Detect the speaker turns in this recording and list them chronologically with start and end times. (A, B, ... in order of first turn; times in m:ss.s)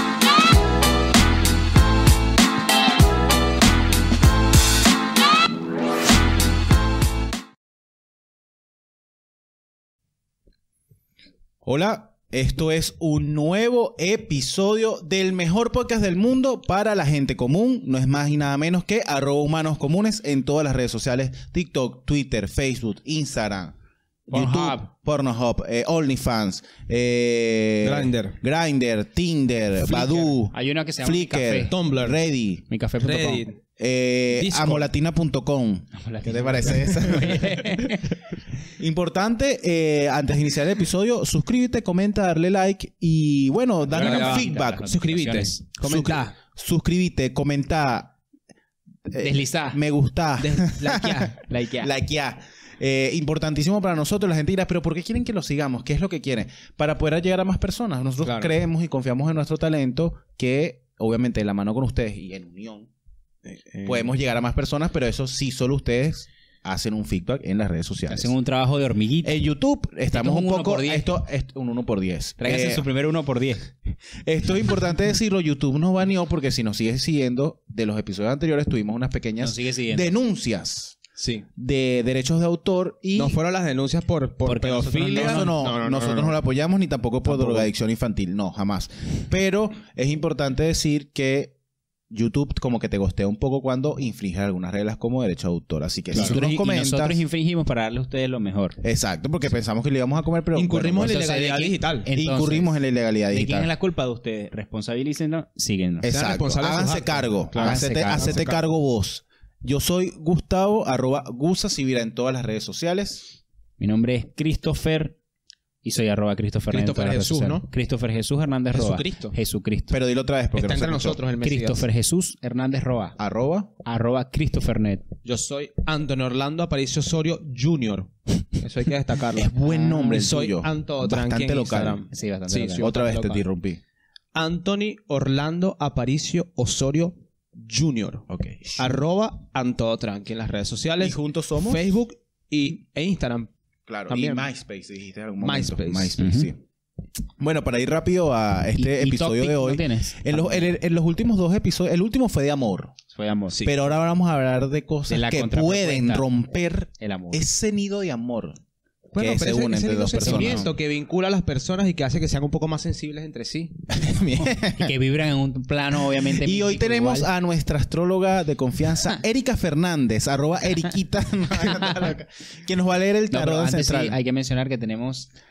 0:11.6-0:23.8 A
0:24.3-0:24.9 B
0:24.3-0:32.6 A
0:27.8-0:28.4 C
0:29.8-0:30.3 C
0:30.5-0:31.7 B
0:31.7-0:32.2 C
0:32.7-0:33.4 B
0:33.0-0:33.6 C
0:33.8-0:37.7 A
0:34.3-0:34.9 C
0:36.0-0:38.0 B
0:38.8-0:44.9 A
0:43.9-0:45.6 B
0:43.9-0:46.4 C
0:45.8-0:48.2 A
0:49.1-1:02.9 A
0:49.2-0:49.8 B
0:50.4-0:51.4 C
0:51.4-0:51.9 B
0:58.2-0:58.5 C
1:03.4-1:04.0 C
1:03.8-1:08.3 A
1:08.1-1:09.4 B
1:09.2-1:12.8 A
1:10.1-1:11.1 B
1:12.4-1:13.7 B
1:14.2-1:21.0 A
1:19.4-1:20.1 B
1:21.2-1:21.4 C
1:21.6-1:23.4 A
1:23.2-1:26.4 C
1:24.4-1:25.5 B
1:25.1-1:31.5 A
1:27.3-1:27.7 C
1:32.1-1:37.2 A
1:36.1-1:36.4 C
1:36.1-1:38.8 B
1:38.8-1:41.2 A
1:40.5-1:42.1 C
1:41.0-1:42.7 B
1:42.1-1:43.7 A
1:43.3-1:46.1 B
1:46.0-1:53.2 A
1:46.1-1:48.6 C
1:47.6-1:48.4 B
1:53.8-1:55.2 B
1:55.8-2:00.0 B
1:56.7-1:57.7 C
1:58.7-1:59.3 C
1:59.9-2:01.2 A
2:00.5-2:01.8 C
2:01.4-2:03.2 B
2:03.2-2:03.7 A
2:03.8-2:05.0 B
2:05.2-2:13.4 C
2:09.3-2:12.0 A
2:09.7-2:10.1 B
2:12.1-2:12.9 B
2:12.8-2:13.8 A
2:14.3-2:18.3 C
2:18.3-2:18.9 A
2:18.8-2:23.5 C
2:21.0-2:21.9 A
2:23.9-2:26.6 A
2:24.1-2:24.4 C
2:25.4-2:26.2 C
2:26.2-2:26.5 B
2:27.4-2:32.9 A
2:28.8-2:30.7 B
2:33.1-2:33.6 B
2:33.6-2:38.6 A
2:35.1-2:36.2 B
2:37.0-2:37.4 B
2:39.1-2:43.8 C
2:39.2-2:40.7 A
2:40.2-2:40.7 B
2:43.9-2:44.9 A
2:44.7-2:47.3 B
2:46.2-2:54.2 A
2:53.3-2:55.3 B